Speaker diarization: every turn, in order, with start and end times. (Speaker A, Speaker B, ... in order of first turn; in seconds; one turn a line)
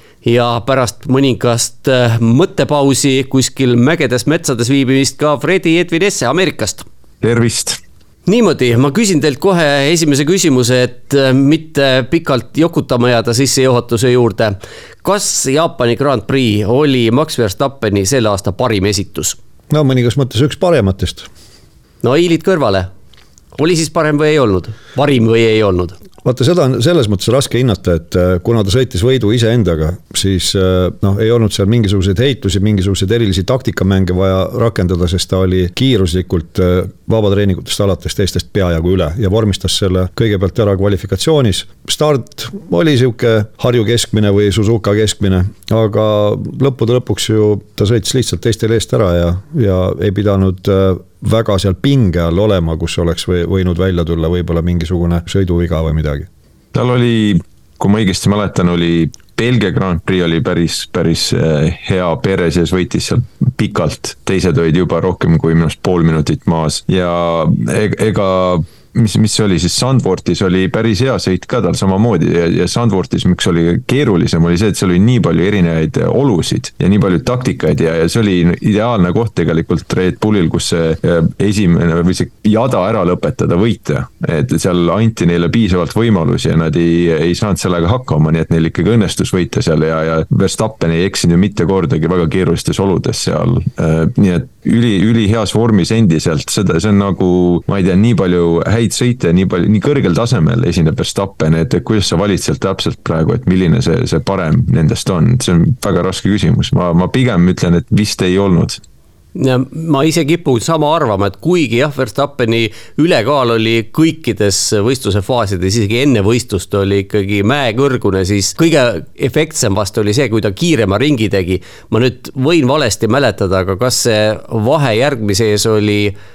Speaker A: 0.2-6.8
Speaker B: 7.2-7.8
Speaker A: 8.2-19.4
Speaker C: 19.7-21.3
Speaker A: 22.0-22.9
Speaker A: 23.5-25.9
Speaker C: 26.2-56.3
Speaker B: 56.7-108.8
Speaker A: 109.3-126.1